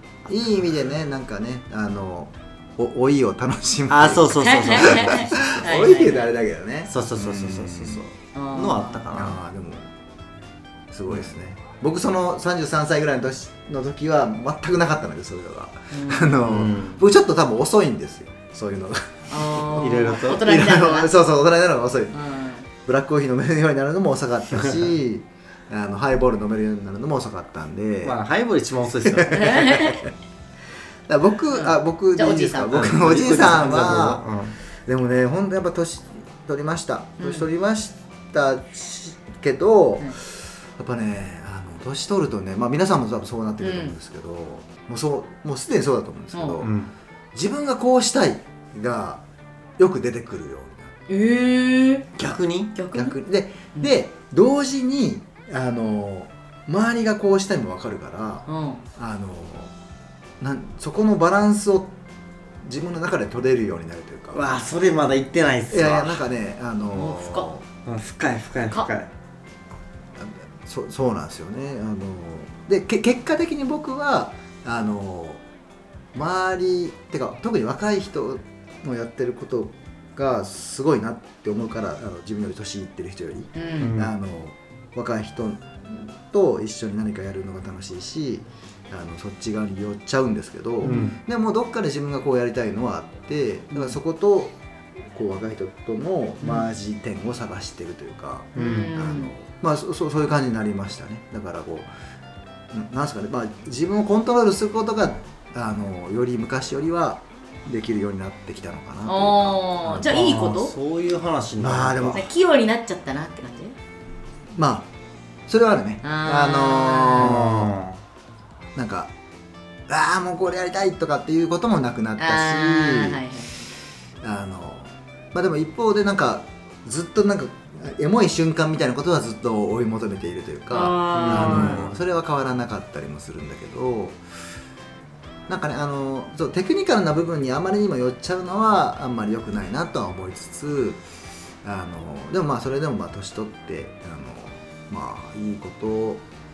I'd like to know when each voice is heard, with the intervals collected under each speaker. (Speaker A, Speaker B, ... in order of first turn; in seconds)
Speaker A: 0.3-0.7, 3.9-5.5, 6.9-9.4, 16.4-17.0, 19.7-20.4, 28.0-29.8, 32.7-34.6, 46.6-46.9, 52.2-52.8, 64.3-66.2, 67.9-69.1, 83.8-84.1, 90.8-91.2, 98.6-98.9, 109.9-112.2, 117.2-118.0, 131.1-132.0
Speaker B: 0.3-8.0, 9.1-9.9, 10.9-22.2, 22.9-28.2, 29.0-30.1, 31.1-34.2, 34.9-46.7, 47.3-49.2, 49.8-50.9, 52.9-58.5, 59.0-59.7, 60.4-61.9, 62.6-64.4, 65.7-67.7, 70.2-75.4, 76.1-94.6, 95.1-101.9, 102.7-110.4, 111.6-112.3, 114.6-114.9, 115.5-117.7, 118.8-119.1, 119.9-123.2, 124.2-134.2, 135.5-141.0, 141.6-146.2
Speaker C: 4.4-6.3, 8.3-9.0, 15.9-16.4, 19.3-21.1, 22.1-22.7, 29.3-30.1, 31.5-33.0, 37.2-37.5, 43.6-44.0, 46.3-46.6, 51.1-52.1, 52.8-53.1, 58.5-58.8, 66.9-67.5, 83.6-83.9, 90.8-91.2, 96.4-96.7, 98.5-99.3, 109.1-110.7, 112.1-113.8, 116.0-117.4, 122.2-123.7, 130.7-131.9